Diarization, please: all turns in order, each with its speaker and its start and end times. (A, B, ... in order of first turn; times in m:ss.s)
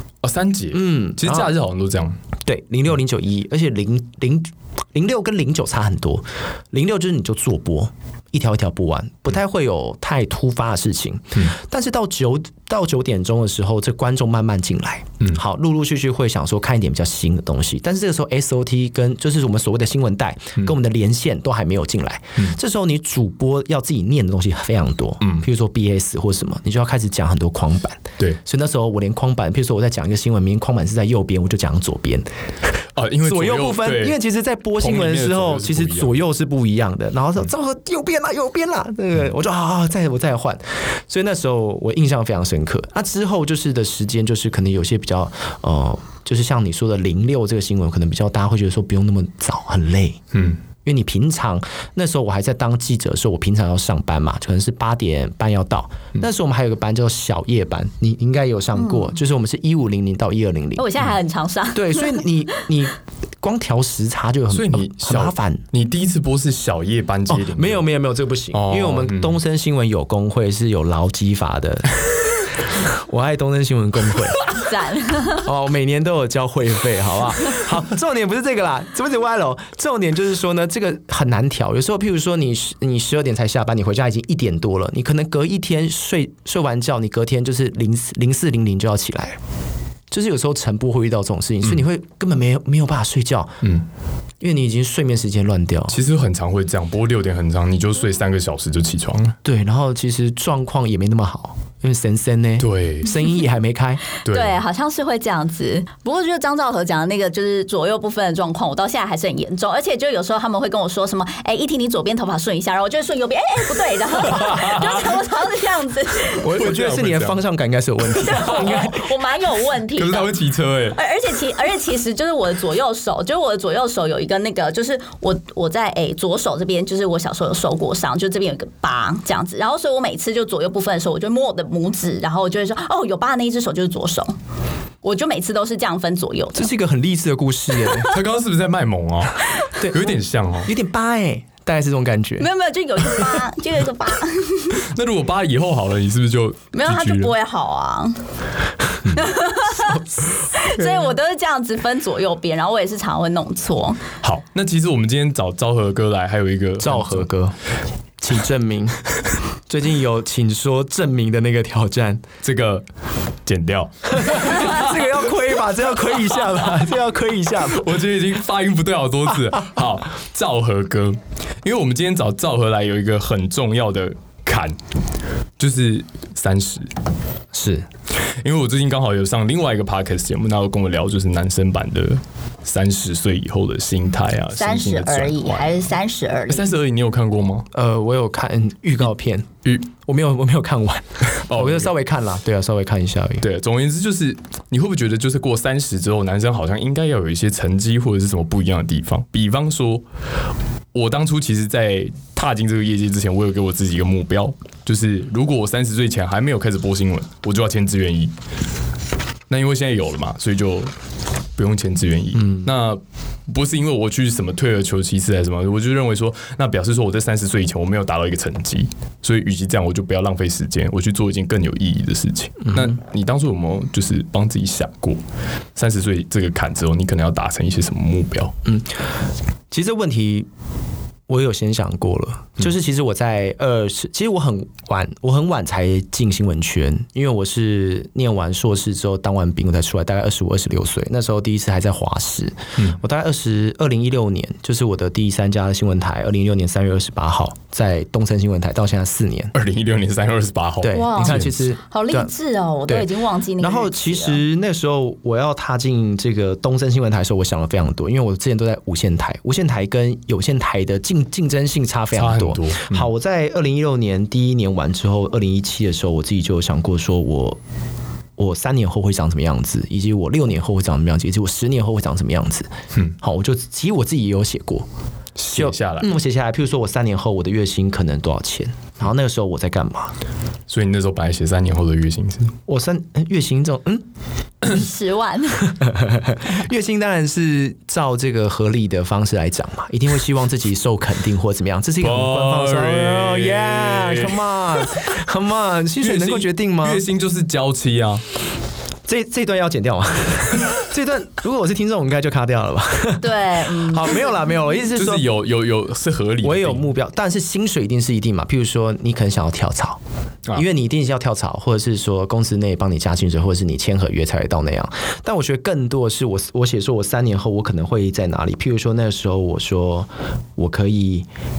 0:00.2-0:02.2 A
0:00.7-0:01.5 B
0:02.4-0:32.2 B
0:25.2-0:25.5 A
0:33.0-0:34.2 A
0:33.2-0:50.2 B
0:34.8-0:36.2 A
0:50.3-0:50.6 A
0:50.8-1:01.0 B
0:58.7-0:59.2 C
1:00.8-1:02.2 C
1:01.7-1:05.6 B
1:04.5-1:07.9 A
1:07.3-1:14.5 B
1:08.5-1:09.4 A
1:14.5-1:15.5 C
1:15.4-1:29.4 B
1:30.1-1:33.6 B
1:34.4-1:36.0 B
1:35.9-1:39.4 A
1:39.4-1:44.0 B
1:42.6-1:43.1 A
1:44.2-1:44.6 A
1:44.3-1:56.5 C
1:54.3-1:55.0 A
1:56.4-1:59.1 B
1:56.4-1:57.4 A
1:58.2-1:58.7 A
1:58.2-2:00.3 C
1:59.9-2:01.0 A
2:00.9-2:14.3 C
2:15.0-2:16.7 C
2:16.5-2:18.2 B
2:17.8-2:18.1 C
2:18.0-2:20.7 A
2:19.8-2:20.1 B
2:20.6-2:22.5 B
2:22.4-2:24.8 C
2:24.8-2:27.3 A
2:26.7-2:28.2 C
2:29.1-2:34.0 C
2:34.2-2:37.3 A
2:36.8-2:37.5 B
2:38.2-2:39.0 B
2:39.7-2:42.2 B
2:42.4-2:42.8 A
2:43.4-2:45.0 A
2:44.1-2:47.8 B
2:47.7-2:54.8 A
2:55.6-2:56.9 A
2:57.5-2:57.8 B
2:58.4-3:05.9 A
3:04.6-3:06.7 C
3:06.5-3:07.7 A
3:07.7-3:13.4 B
3:11.2-3:11.9 A
3:13.4-3:20.0 A
3:20.9-3:28.3 A
3:29.5-3:30.9 A
3:31.6-3:45.2 A
3:45.8-3:48.5 A
3:48.6-3:48.9 B
3:49.7-3:50.5 B
3:51.3-4:09.5 B
4:09.5-4:11.5 A
4:10.8-4:12.3 B
4:10.9-4:14.4 C
4:12.9-4:27.6 B
4:22.1-4:23.1 A
4:28.4-4:34.9 B
4:35.4-4:36.1 A
4:35.5-4:40.1 B
4:40.7-4:42.5 A
4:42.7-4:44.0 B
4:44.6-4:45.7 C
4:45.6-4:57.0 B
4:52.0-4:54.8 A
4:56.0-4:58.2 A
4:59.0-5:05.3 B
5:03.2-5:04.5 C
5:04.9-5:06.9 A
5:06.4-5:10.0 B
5:10.5-5:21.3 B